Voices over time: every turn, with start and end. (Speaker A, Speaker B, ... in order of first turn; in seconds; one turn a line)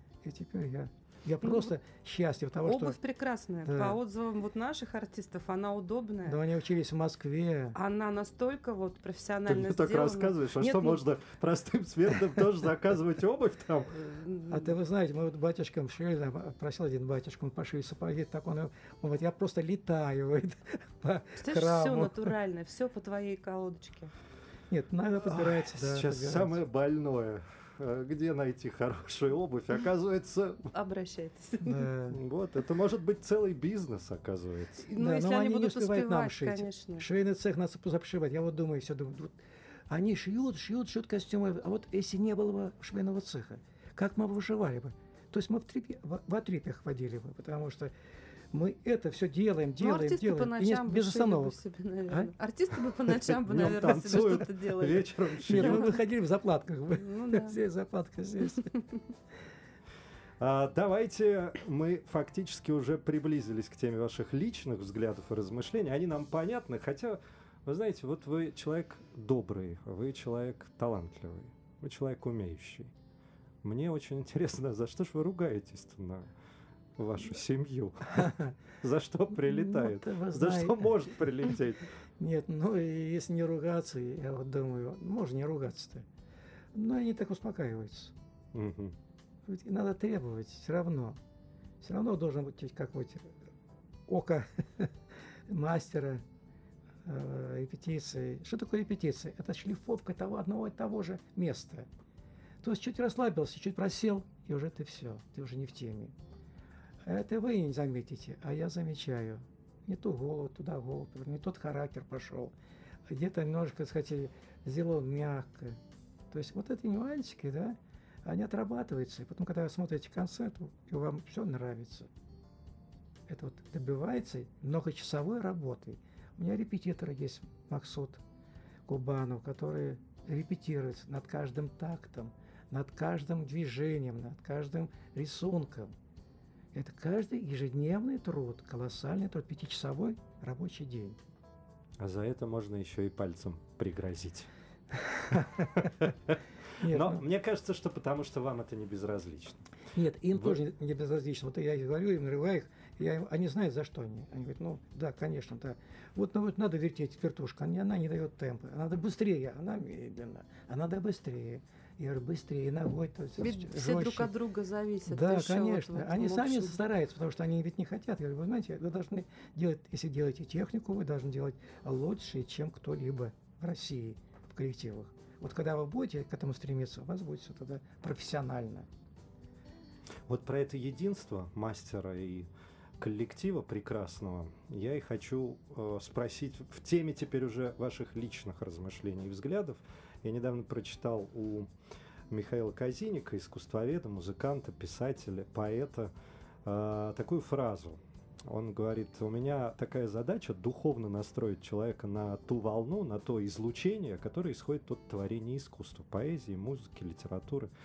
Speaker A: 0.2-3.0
Speaker B: 1.4-1.7
Speaker B: 2.6-6.4
Speaker A: 3.6-4.0
Speaker A: 6.2-7.8
Speaker B: 7.7-11.0
Speaker C: 9.4-14.0
Speaker B: 14.0-14.7
Speaker A: 14.5-22.3
Speaker B: 21.4-24.1
Speaker A: 24.7-26.6
Speaker C: 25.2-30.7
Speaker B: 30.7-31.8
Speaker A: 31.6-32.2
Speaker C: 32.1-34.9
Speaker B: 34.8-37.0
Speaker A: 35.0-39.4
Speaker A: 39.9-47.9
Speaker A: 48.5-52.3
Speaker B: 49.8-55.9
Speaker C: 53.0-55.9
Speaker A: 55.5-58.7
Speaker B: 57.0-57.6
Speaker B: 58.4-58.8
Speaker C: 60.4-72.9
Speaker C: 73.6-76.3
Speaker C: 77.0-81.9
Speaker A: 78.1-78.5
Speaker A: 79.3-81.2
Speaker A: 82.2-86.0
Speaker A: 86.7-88.1
Speaker C: 88.5-89.0
Speaker A: 89.5-91.2
Speaker A: 91.8-93.3
Speaker A: 94.1-94.9
Speaker A: 95.5-96.2
Speaker A: 97.0-101.9
Speaker A: 102.6-106.2
Speaker A: 107.0-112.5
Speaker A: 113.1-115.8
Speaker A: 116.3-122.1
Speaker A: 123.3-128.2
Speaker A: 128.9-135.9
Speaker A: 136.7-141.2
Speaker C: 142.0-144.5
Speaker A: 144.9-146.1
Speaker C: 146.0-149.6
Speaker A: 146.8-147.2
Speaker A: 149.9-164.3
Speaker B: 163.4-166.8
Speaker A: 165.1-178.9
Speaker C: 180.3-182.5
Speaker C: 183.0-191.7
Speaker C: 192.3-196.1
Speaker C: 196.6-207.7